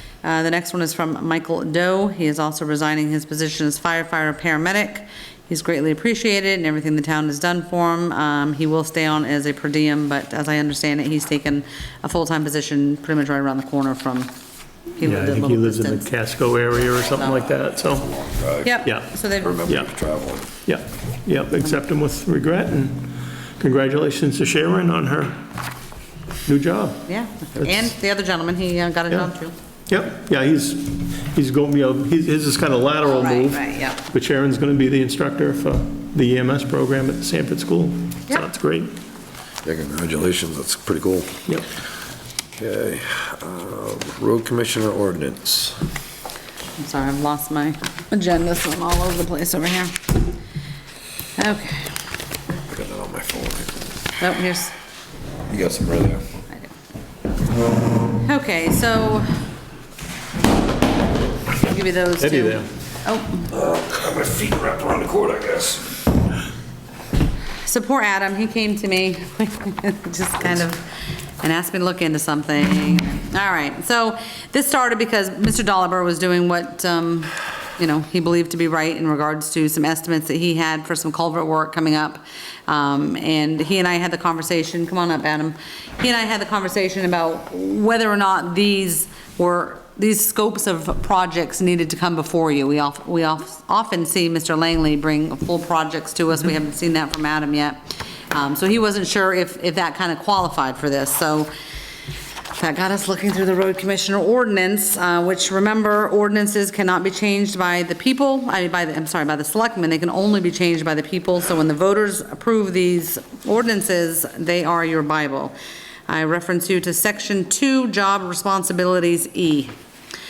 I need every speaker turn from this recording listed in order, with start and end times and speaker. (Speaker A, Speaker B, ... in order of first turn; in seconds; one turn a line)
Speaker A: 0.2-14.3
Speaker A: 15.0-16.1
Speaker B: 15.0-18.1
Speaker A: 16.7-17.5
Speaker C: 17.8-18.8
Speaker A: 18.6-19.6
Speaker C: 19.4-20.5
Speaker B: 20.6-25.4
Speaker B: 26.5-27.0
Speaker A: 27.1-29.5
Speaker B: 29.9-38.9
Speaker A: 33.0-34.0
Speaker C: 39.6-41.4
Speaker C: 42.6-45.8
Speaker A: 46.8-50.1
Speaker A: 51.4-51.9
Speaker C: 52.7-53.7
Speaker A: 54.2-54.8
Speaker C: 55.5-56.2
Speaker A: 58.2-59.4
Speaker A: 61.6-63.5
Speaker B: 62.2-62.7
Speaker C: 63.5-66.0
Speaker A: 67.7-70.8
Speaker A: 71.4-101.5
Speaker A: 102.5-115.5
Speaker A: 116.1-119.7